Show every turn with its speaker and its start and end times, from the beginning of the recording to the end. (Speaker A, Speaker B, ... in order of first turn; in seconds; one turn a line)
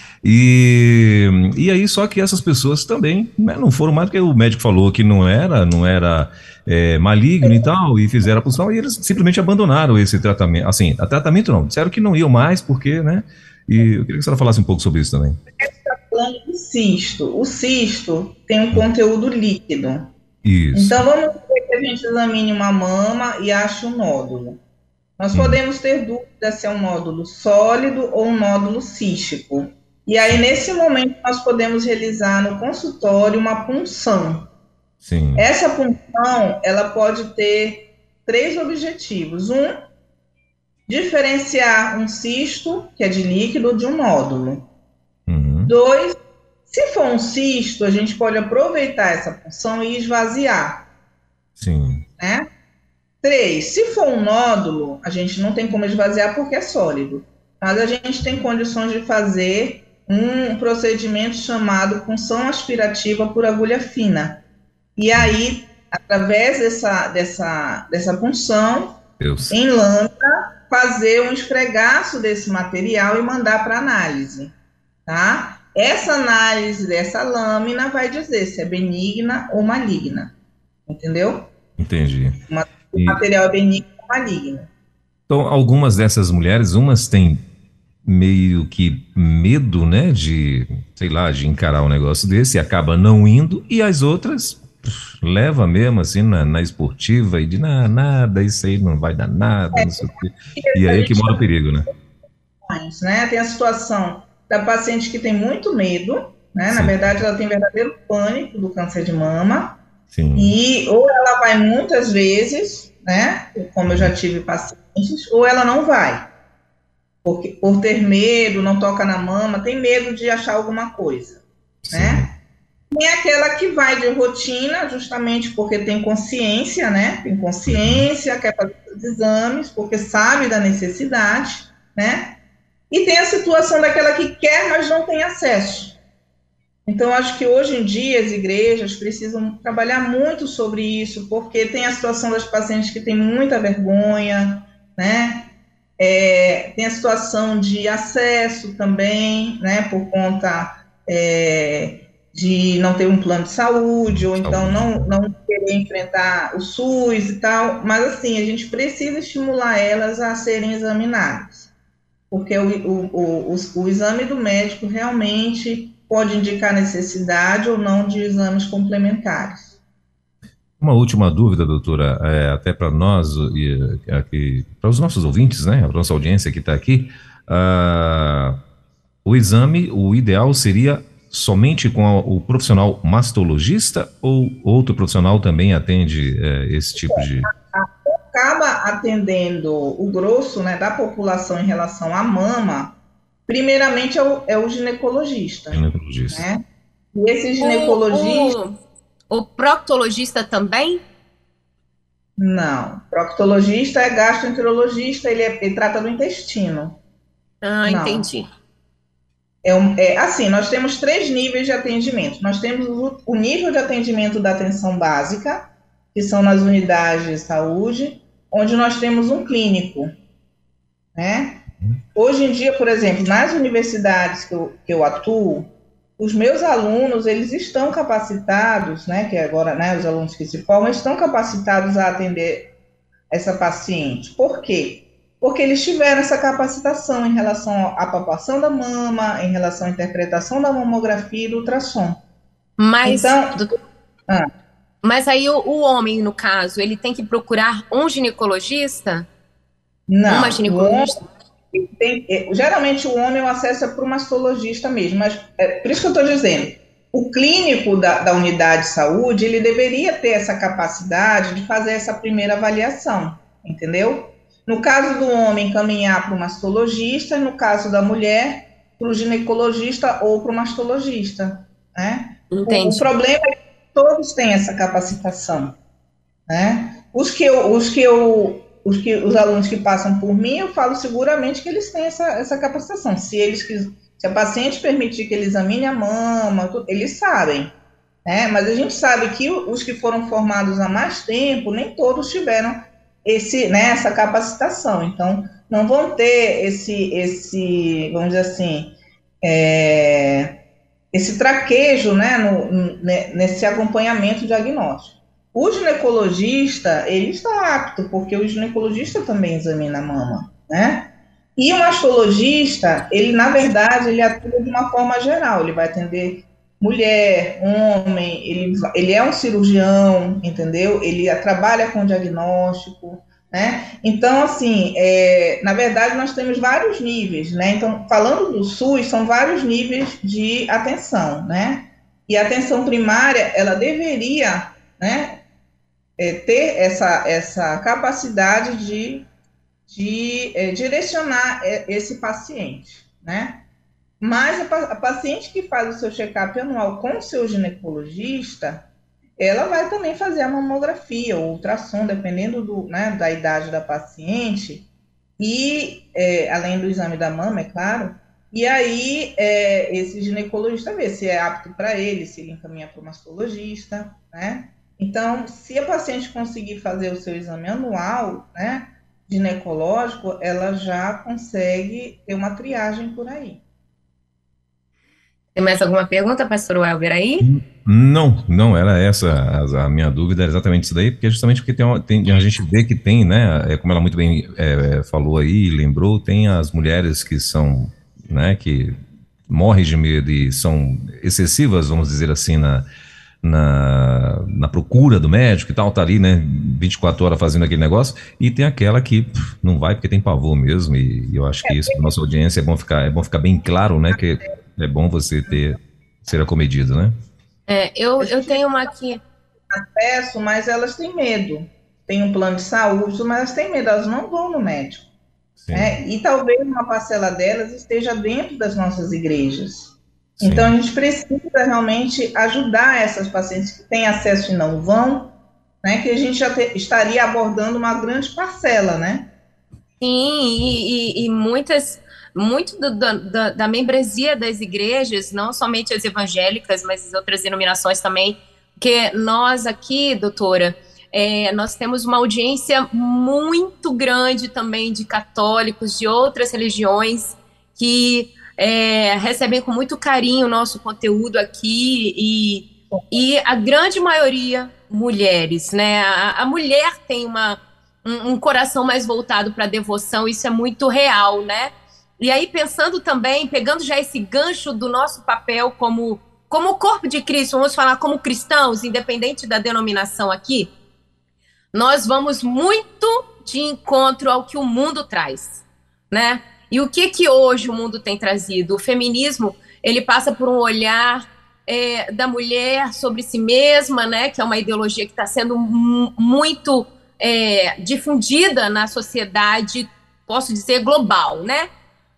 Speaker A: 0.2-15.4
Speaker B: 15.6-20.1
Speaker A: 20.4-21.1
Speaker B: 20.7-24.6
Speaker B: 25.2-34.5
Speaker A: 35.0-35.5
Speaker B: 35.4-39.8
Speaker B: 40.9-44.7
Speaker A: 45.3-45.7
Speaker B: 45.7-46.2
Speaker B: 46.7-50.9
Speaker A: 51.6-52.0
Speaker B: 52.2-52.5
Speaker B: 53.2-64.4
Speaker B: 65.0-74.5
Speaker A: 69.2-69.6
Speaker B: 75.1-80.3
Speaker B: 80.9-81.5
Speaker A: 81.8-82.4
Speaker B: 82.5-84.7
Speaker A: 85.3-87.4
Speaker A: 88.0-101.9
Speaker B: 99.8-101.5
Speaker B: 102.7-109.8
Speaker A: 106.7-107.2
Speaker A: 110.1-110.5
Speaker B: 110.4-116.3
Speaker A: 113.9-114.1
Speaker B: 117.2-122.3
Speaker A: 121.8-122.3
Speaker B: 122.9-136.0
Speaker A: 127.7-128.1
Speaker B: 136.9-161.7
Speaker A: 154.1-155.1
Speaker B: 162.3-169.8
Speaker A: 170.8-178.6
Speaker A: 179.2-187.5
Speaker B: 187.0-196.6
Speaker A: 195.7-196.5
Speaker B: 197.1-198.6
Speaker C: 197.6-198.7
Speaker C: 199.3-201.0
Speaker B: 202.4-207.0
Speaker C: 207.6-208.5
Speaker B: 207.9-208.3
Speaker B: 209.6-220.1
Speaker B: 221.2-221.6
Speaker B: 222.2-232.7
Speaker B: 233.3-242.2
Speaker C: 242.8-243.8
Speaker B: 243.1-243.7
Speaker C: 245.0-249.3
Speaker B: 250.1-251.2
Speaker C: 250.3-251.2
Speaker B: 251.7-275.8
Speaker C: 272.5-273.1
Speaker B: 276.5-300.6
Speaker B: 301.1-335.4
Speaker B: 336.2-339.3
Speaker B: 339.9-343.7
Speaker B: 344.2-348.9
Speaker B: 349.4-354.9
Speaker B: 355.4-373.6
Speaker C: 375.6-377.5
Speaker A: 377.4-389.0
Speaker A: 389.5-392.9
Speaker A: 393.4-407.1
Speaker B: 401.6-402.1
Speaker B: 404.1-404.5
Speaker C: 407.7-409.2
Speaker B: 408.2-408.9
Speaker B: 409.7-415.1
Speaker A: 415.6-415.9
Speaker B: 415.7-429.3
Speaker A: 420.4-420.7
Speaker C: 430.0-470.7
Speaker C: 471.7-491.7